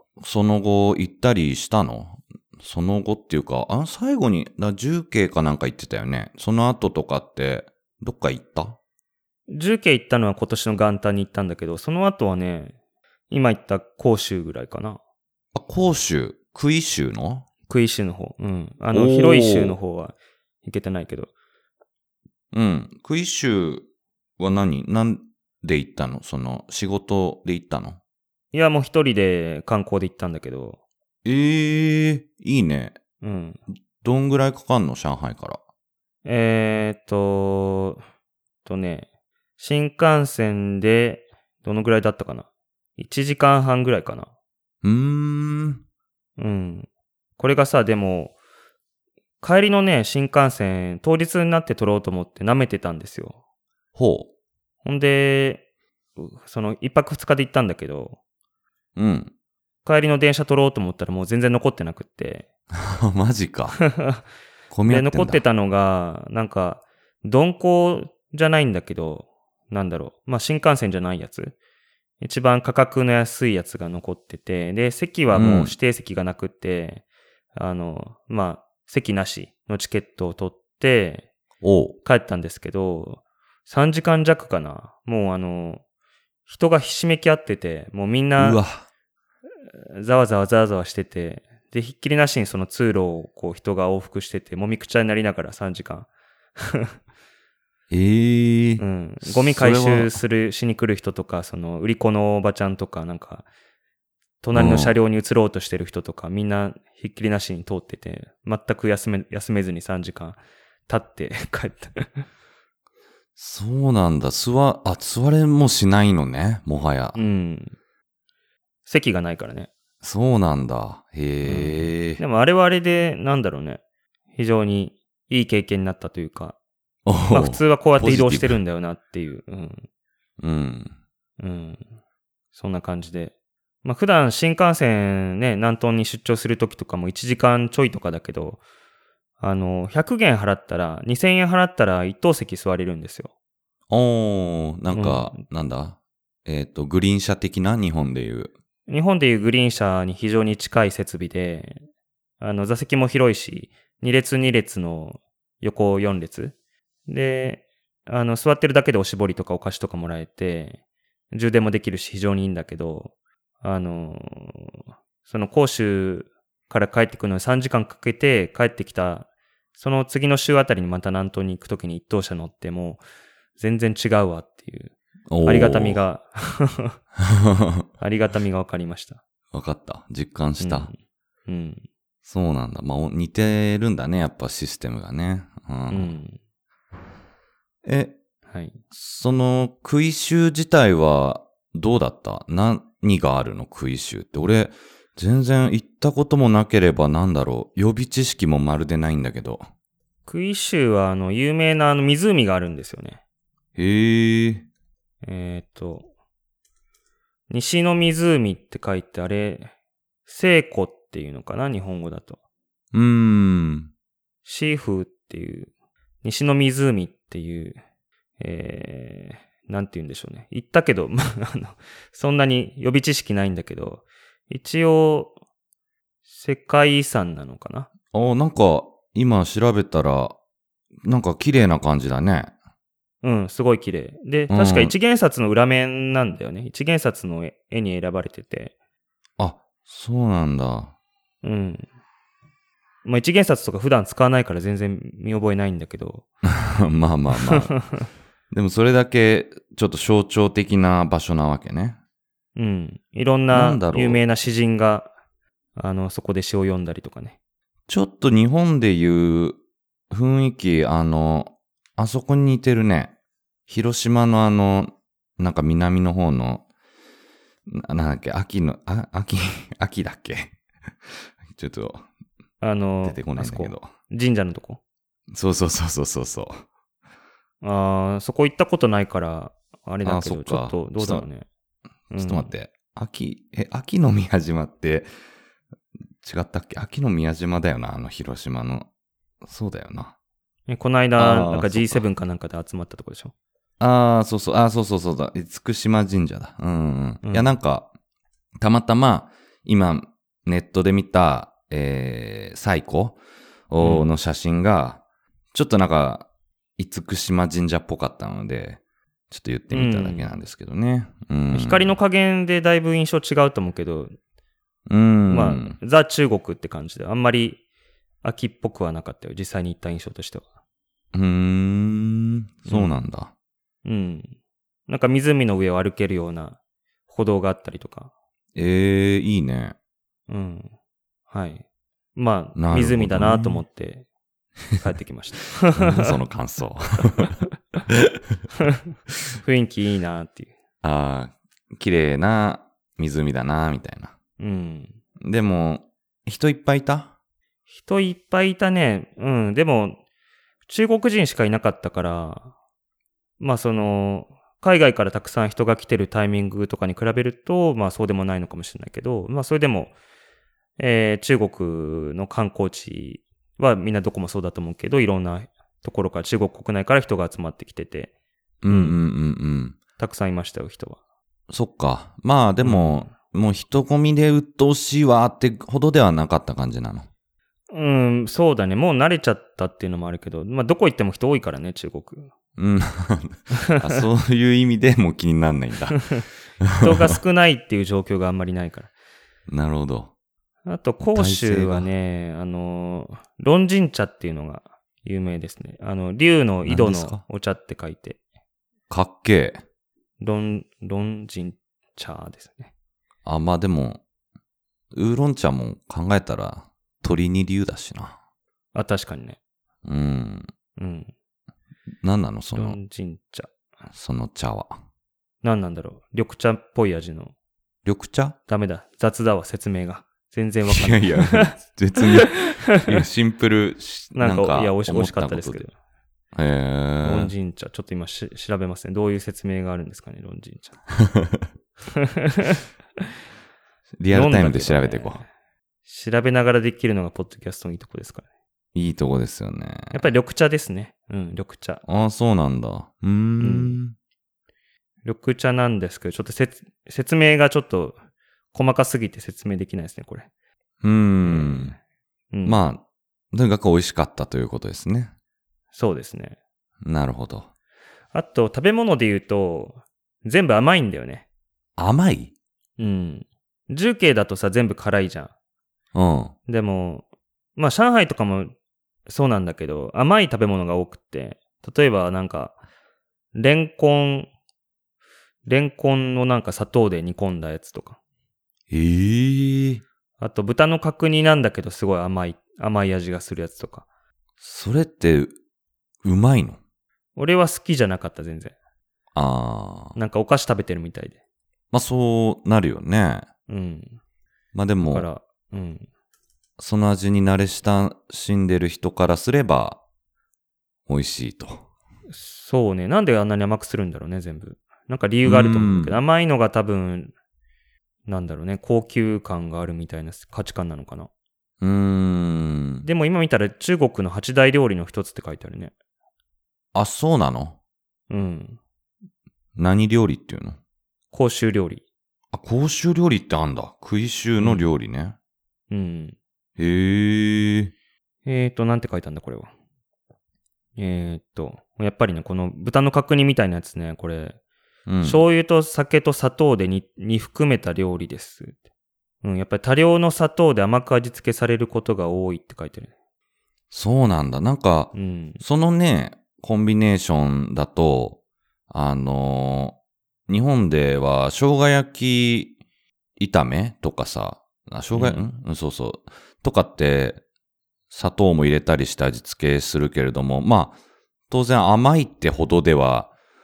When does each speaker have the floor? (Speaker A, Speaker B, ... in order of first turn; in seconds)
Speaker A: 0.2-8.8, 15.5-17.4, 18.9-19.8, 22.5-23.9, 24.4-28.0, 31.2-33.0, 34.0-35.6, 44.8-45.8, 53.9-54.3, 59.0-59.3, 62.7-63.8, 64.7-65.4, 75.3-75.7, 81.6-82.0, 88.4-88.8, 97.9-100.2, 104.5-105.0, 113.4-117.2, 120.0-122.2, 127.0-128.6, 130.4-130.9, 143.9-148.5, 175.3-176.0, 177.2-177.8, 179.5-180.9, 182.2-186.2, 187.8-188.2, 188.9-199.6, 203.8-204.7, 212.9-213.9, 228.1-230.3, 231.0-232.5, 234.5-234.9, 239.4-240.9, 246.5-247.7, 248.5-252.0, 253.5-254.2, 257.9-259.6, 260.1-263.1, 263.7-266.6, 267.7-270.6, 271.1-272.0, 273.0-273.9, 275.3-276.6, 280.0-281.2, 282.1-285.1, 286.2-288.9, 289.4-290.1, 291.2-292.0, 293.8-297.9, 298.6-303.2, 303.7-305.0, 305.5-306.3, 306.8-311.9, 314.9-315.8, 321.1-323.3, 328.5-329.8, 332.6-333.6, 335.7-337.3, 340.8-344.1, 345.2-347.1, 368.6-369.8, 371.5-377.1, 382.6-387.0, 389.5-390.1, 391.0-391.9, 396.6-397.2, 398.9-399.6, 403.2-404.0, 404.9-408.1, 409.8-410.5, 412.0-412.8, 413.9-414.8, 417.8-418.4, 420.7-425.6, 426.3-427.3, 431.0-431.5, 434.0-435.2, 438.7-440.1, 441.9-443.9, 450.8-451.8, 452.4-452.8, 453.3-455.1, 456.8-457.5, 461.8-462.3, 465.9-466.3, 478.7-479.8, 484.4-485.3, 486.0-486.6, 489.1-490.0, 491.7-493.3, 494.5-495.1, 496.6-499.8, 500.9-501.6, 505.2-506.0, 511.6-512.9, 516.7-517.6, 519.5-520.6, 522.3-525.1, 526.6-527.7, 534.9-535.2, 543.7-548.2, 548.7-549.8, 550.3-552.5, 553.2-557.2, 557.9-560.8, 561.3-563.1
Speaker B: 9.5-12.7, 13.3-15.0, 17.7-21.3, 28.5-30.8, 33.2-33.6, 36.2-38.0, 38.6-39.1, 39.6-44.3, 46.4-46.9, 47.4-48.4, 49.4-53.4, 54.8-55.6, 56.2-58.2, 59.8-62.5, 63.8-64.2, 64.8-71.5, 72.2-77.0, 77.5-81.3, 82.0-85.8, 86.5-88.6, 89.8-96.9, 98.8-103.5, 104.4-112.3, 117.1-117.8, 118.8-119.7, 121.4-123.8, 124.3-126.5, 127.3-129.8, 131.4-131.8, 132.5-133.3, 133.8-138.6, 139.4-143.3, 144.9-145.4, 148.9-151.8, 152.4-156.5, 157.1-160.8, 161.3-173.0, 173.6-174.9, 175.4-177.0, 178.0-179.2, 180.6-180.9, 181.5-181.8, 185.9-186.4, 188.5-188.8, 200.3-203.2, 205.2-206.1, 207.5-209.7, 210.2-212.4, 214.4-215.7, 216.2-217.8, 218.4-225.3, 226.3-227.9, 233.2-238.7, 241.4-241.8, 243.0-246.2, 247.3-248.0, 252.6-255.1, 255.8-257.4, 272.6-274.8, 277.6-281.4, 282.1-282.5, 290.7-293.3, 297.2-297.5, 303.8-304.1, 309.7-310.3, 311.5-314.1, 315.3-317.6, 318.2-320.4, 322.7-322.9, 323.8-324.3, 324.9-326.6, 327.1-328.1, 330.3-330.7, 331.3-331.6, 332.1-334.0, 334.8-336.1, 339.4-340.5, 344.4-344.9, 347.8-350.0, 350.7-352.5, 353.4-359.9, 360.8-368.1, 368.7-369.0, 370.0-371.0, 372.6-373.1, 377.7-382.3, 385.9-386.2, 386.8-388.9, 390.6-398.2, 400.2-402.7, 408.7-409.4, 410.8-411.1, 412.5-413.5, 415.4-417.3, 418.5-422.9, 424.1-425.7, 427.0-430.8, 431.9-432.6, 434.1-435.2, 435.9-438.2, 439.9-441.8, 443.4-443.8, 445.0-448.0, 448.5-450.3, 451.2-451.8, 452.3-452.6, 455.7-456.4, 458.1-461.2, 462.8-465.3, 466.5-467.0, 467.6-468.5, 469.1-472.6, 473.3-474.3, 475.4-478.0, 480.2-483.8, 487.1-488.5, 489.9-491.2, 493.5-494.0, 494.8-495.9, 502.1-507.1, 508.1-511.1, 512.8-515.7, 518.1-518.6, 521.1-521.8, 524.4-524.6, 525.7-526.1, 528.2-529.5, 530.8-534.4, 535.0-538.6, 539.2-542.9, 544.9-545.4, 554.9-555.2